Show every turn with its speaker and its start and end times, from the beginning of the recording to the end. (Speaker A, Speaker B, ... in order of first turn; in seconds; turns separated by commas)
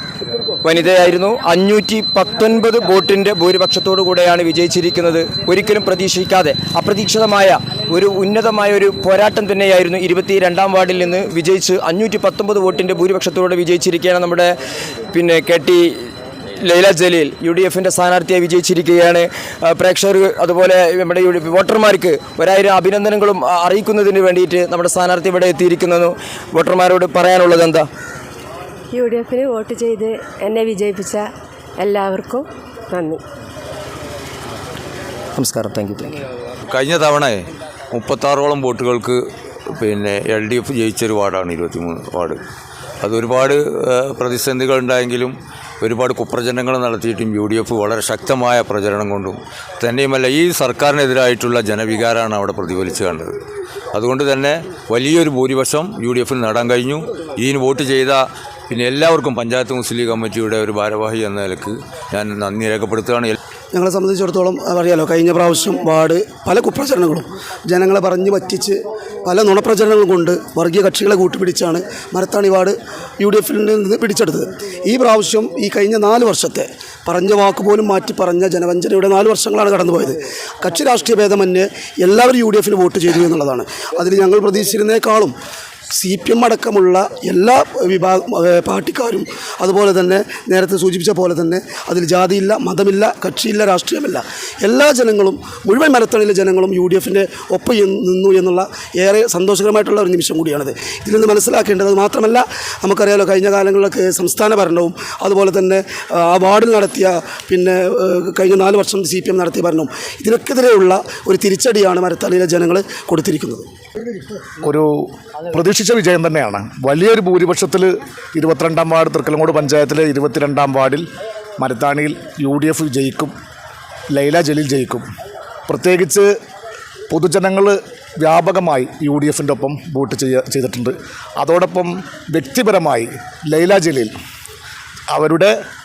Speaker A: 0.6-14.6, Speaker A: 15.1-27.9, Speaker B: 28.9-31.3, Speaker B: 31.8-33.2, Speaker A: 35.4-36.2, Speaker C: 36.7-39.2, Speaker C: 39.7-42.4, Speaker C: 43.0-53.4, Speaker C: 53.9-63.4, Speaker D: 63.7-85.3, Speaker D: 85.9-113.7, Speaker E: 114.6-121.0, Speaker E: 121.6-123.3, Speaker E: 124.1-125.1, Speaker E: 125.7-126.3, Speaker E: 127.1-134.1, Speaker E: 135.1-135.6